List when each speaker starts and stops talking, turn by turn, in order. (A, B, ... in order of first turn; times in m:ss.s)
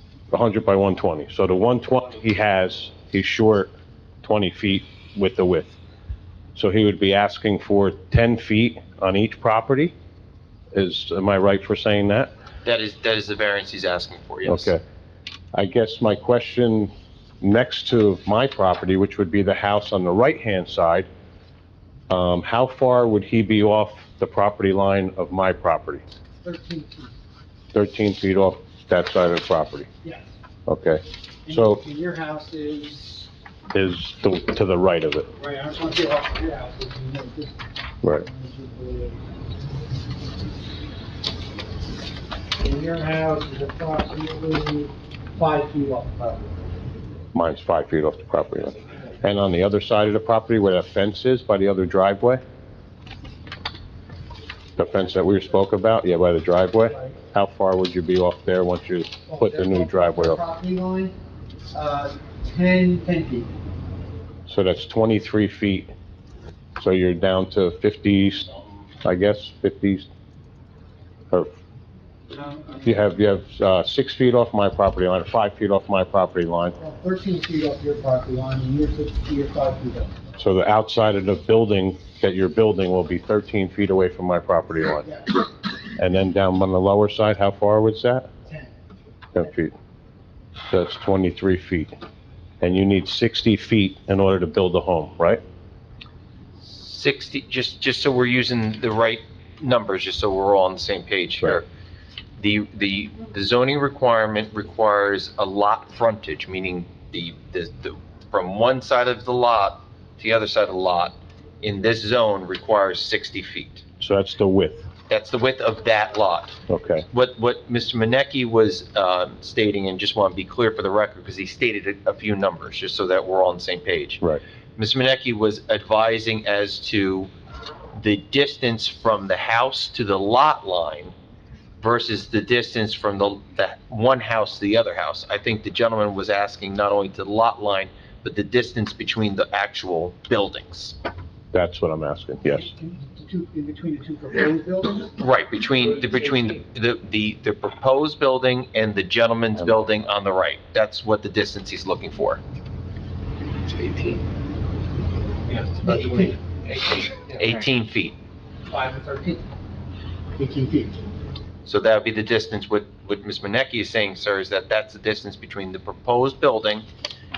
0:00.3-0:03.7 A
0:04.2-0:05.8 A
0:06.6-0:09.9 A
0:10.7-0:12.3 A
0:12.6-0:14.7 B
0:14.4-0:14.8 A
0:15.5-0:21.1 A
0:22.1-0:26.0 A
0:26.4-0:27.1 C
0:27.7-0:29.9 A
0:30.0-0:30.3 C
0:30.7-0:31.8 A
0:31.5-0:33.3 C
0:33.7-0:35.3 A
0:35.4-0:37.6 C
0:38.1-0:39.2 C
0:42.6-0:46.6 C
0:47.3-0:52.4 A
0:54.8-1:00.4 A
0:59.3-1:01.1 C
1:01.7-1:03.5 C
1:04.5-1:05.9 A
1:06.8-1:08.5 A
1:09.0-1:10.1 A
1:12.3-1:13.1 C
1:12.8-1:16.8 A
1:16.8-1:20.2 C
1:20.4-1:25.1 A
1:25.0-1:25.4 C
1:26.0-1:28.3 A
1:28.5-1:28.8 C
1:29.3-1:29.7 A
1:30.7-1:31.9 A
1:32.6-1:35.4 A
1:36.6-1:41.7 B
1:42.4-1:53.8 B
1:54.0-1:54.9 A
1:55.1-1:56.6 B
1:56.7-1:57.0 A
1:57.1-2:04.2 B
2:04.8-2:07.3 B
2:08.0-2:11.1 B
2:11.8-2:21.0 B
2:21.5-2:22.7 A
2:22.5-2:25.1 C
2:25.2-2:32.4 B
2:35.8-2:36.4 C
2:37.1-2:38.2 B
2:38.7-2:39.4 C
2:40.4-2:41.0 C
2:41.7-2:46.9 B